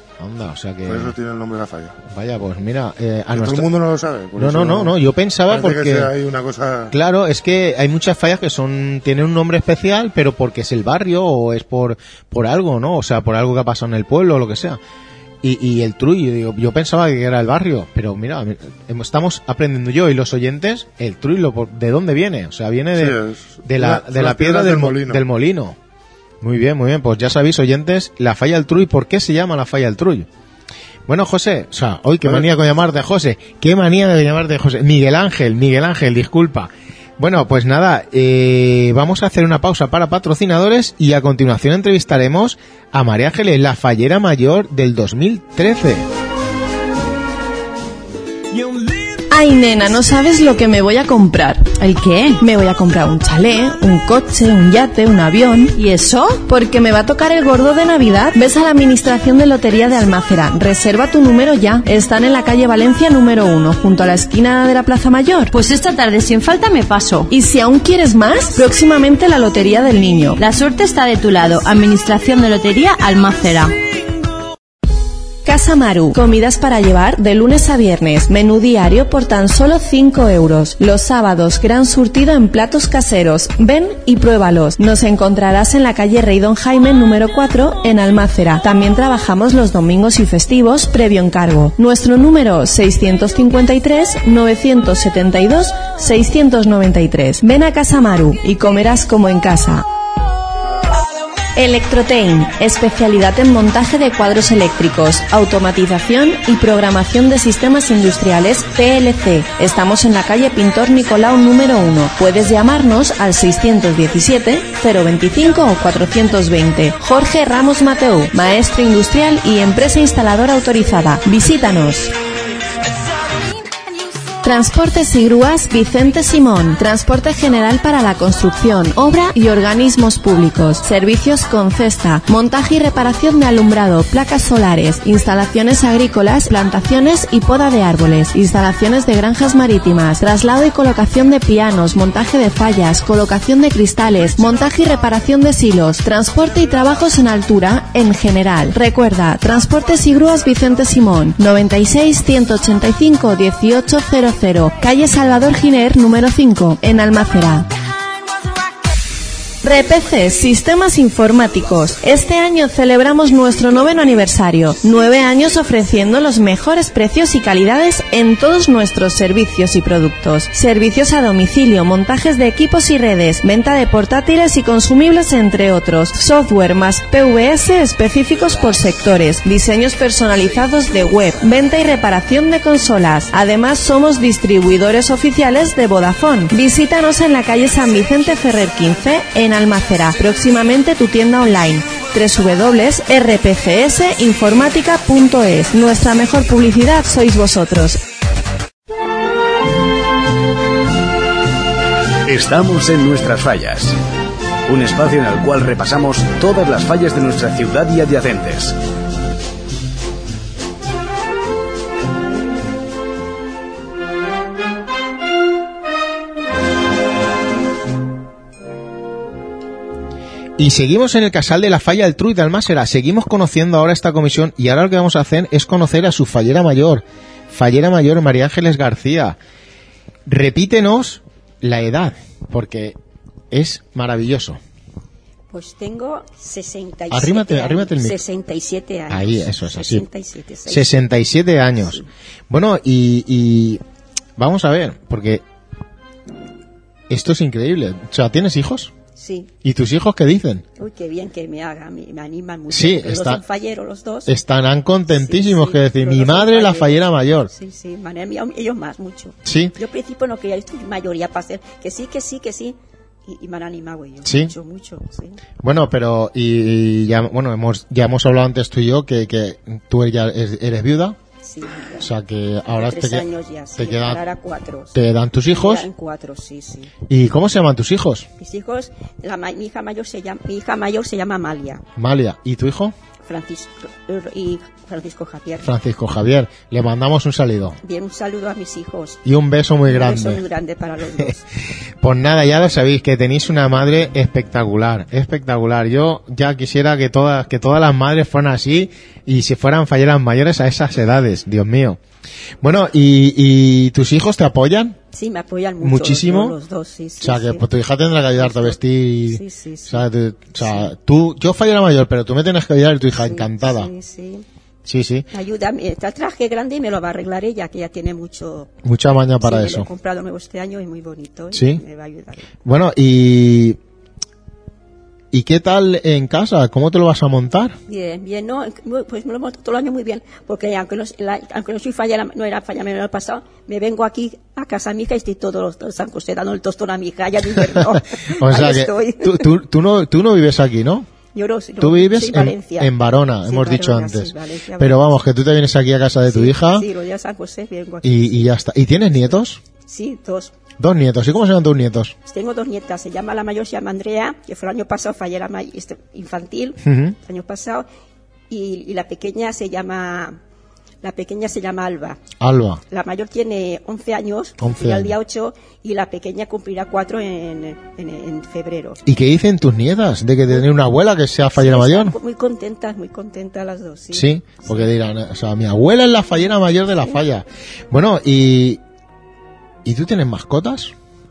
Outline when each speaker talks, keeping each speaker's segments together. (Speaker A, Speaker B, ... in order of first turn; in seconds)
Speaker A: 0.2-1.1, 2.1-3.7, 4.4-6.1, 6.9-14.8, 15.4-25.8, 26.4-30.3, 31.1-46.0, 220.6-229.4, 230.2-233.0, 233.5-234.6, 237.1-238.2, 239.1-240.1, 240.7-243.8, 244.4-245.4, 247.1-248.9, 249.6-250.6, 252.7-253.4, 254.3-257.5, 259.4-259.7, 264.2-264.5, 265.6-271.2, 272.0-274.2, 274.9-275.9, 277.1-278.3, 281.9-282.9, 285.6-287.8, 289.2-290.4, 292.0-302.0, 302.6-305.0, 305.8-306.6, 307.2-313.9, 314.8-315.3, 318.8-319.9, 321.5-321.8, 322.6-323.8, 325.3-327.8, 337.6-341.1, 341.8-346.9, 348.0-349.6, 350.8-352.1, 356.8-357.2, 362.4-362.8, 364.6-365.2, 369.1-372.1, 374.1-378.8, 379.8-380.9
Speaker B: 0.8-2.0, 3.3-5.0, 5.5-7.0, 22.9-25.2, 32.2-32.5
Speaker C: 49.3-51.7, 52.4-55.8, 56.4-65.5, 67.3-70.4, 75.4-99.8, 101.5-122.1, 124.4-157.7, 159.6-198.0
Speaker D: 51.8-52.4, 55.7-56.4, 65.5-67.3, 70.4-73.7
Speaker E: 202.2-203.9, 204.7-208.8
Speaker F: 235.5-241.1, 241.7-242.0, 249.2-249.5, 250.8-254.3, 255.1-265.4, 271.4-272.1, 272.7-275.0, 275.5-276.9, 278.4-281.8, 283.2-285.7, 287.8-289.2, 289.8-291.4, 305.1-307.6, 308.4-310.1, 310.6-310.9, 313.2-314.4, 315.3-318.7, 319.4-322.5, 327.9-339.5, 341.3-342.9, 343.4-345.1, 346.2-348.6, 349.1-350.5, 352.2-357.9, 358.5-360.4, 361.0-362.2, 362.9-369.0, 371.5-374.9